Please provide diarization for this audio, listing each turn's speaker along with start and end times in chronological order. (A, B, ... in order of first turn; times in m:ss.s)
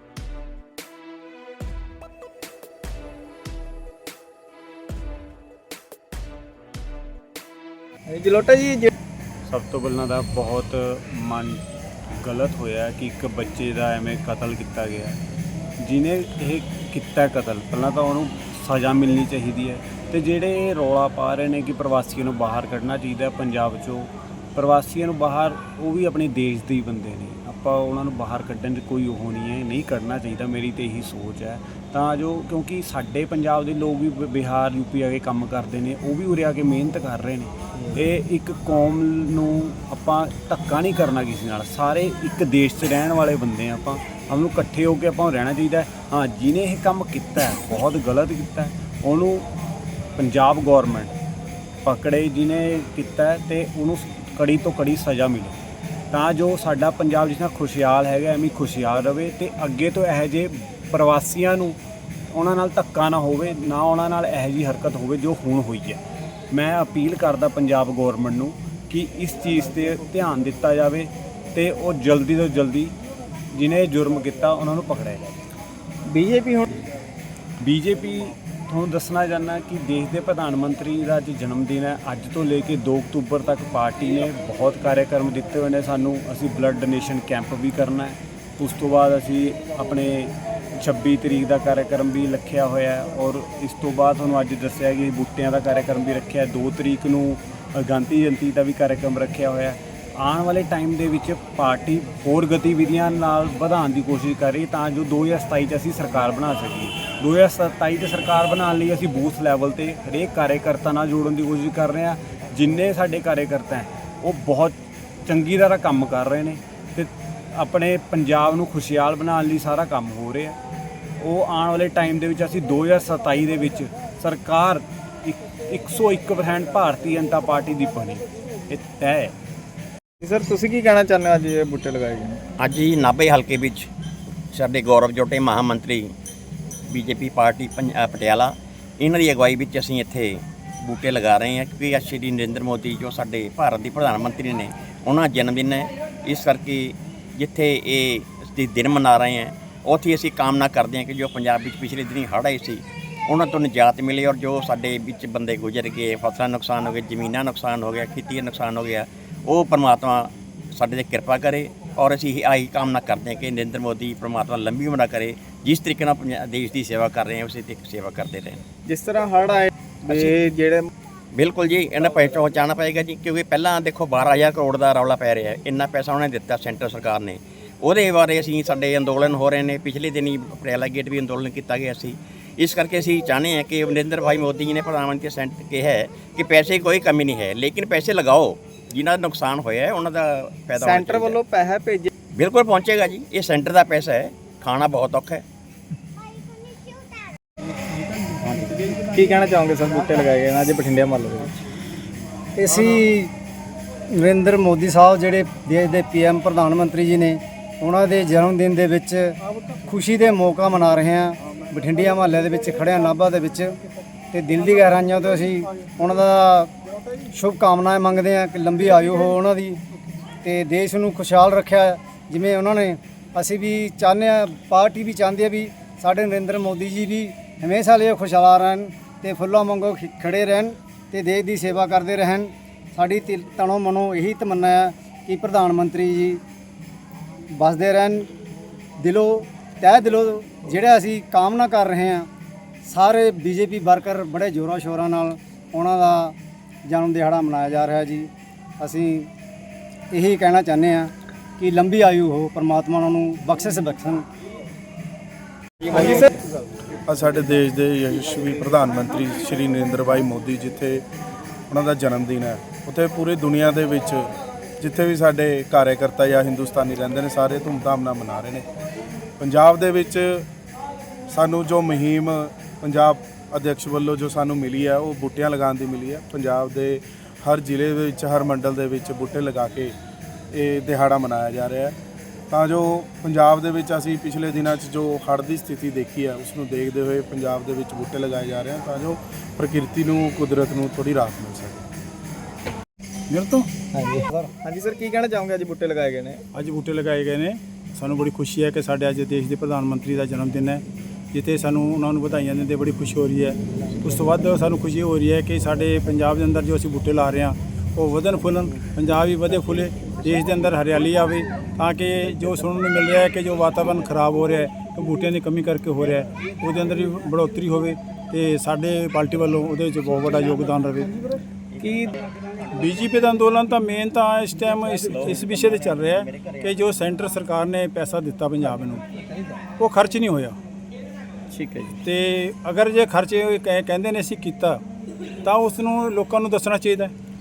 0:08.1-0:08.9 A
0:09.4-0:11.6 B
0:12.1-0:15.2 B
0:15.8-0:49.5 B
0:50.2-0:51.1 B
0:51.8-0:55.6 B
0:56.1-1:01.8 B
1:02.3-1:12.9 B
1:13.5-1:15.2 B
1:16.1-1:16.8 A
1:17.6-2:00.6 B
2:01.2-2:09.3 B
2:10.2-2:12.4 A
2:12.6-2:13.9 C
2:14.5-2:16.1 C
2:16.9-2:48.6 C
2:48.9-2:50.9 A
2:50.1-2:50.3 C
2:51.4-3:11.4 C
3:10.8-3:12.1 A
3:12.4-3:15.4 C
3:18.4-3:21.6 A
3:22.6-3:23.3 D
3:24.2-3:33.8 D
3:34.3-3:36.7 D
3:37.3-3:39.8 D
3:40.4-3:56.4 D
3:57.5-3:58.3 D
3:59.0-4:02.3 D
4:02.9-4:09.3 D
4:10.1-4:14.3 D
4:15.9-4:16.2 E
4:17.1-4:21.0 E
4:21.7-4:24.3 E
4:24.8-4:28.6 E
4:29.4-4:30.5 E
4:31.3-4:40.0 E
4:40.5-4:42.0 E
4:42.5-4:51.9 E
4:53.3-4:53.7 F
4:53.9-4:56.4 A
4:56.5-5:21.1 F
5:21.8-5:22.2 A
5:22.7-5:29.0 F
5:29.8-5:30.6 F
5:31.5-5:32.0 A
5:32.0-5:34.8 F
5:35.4-5:37.1 F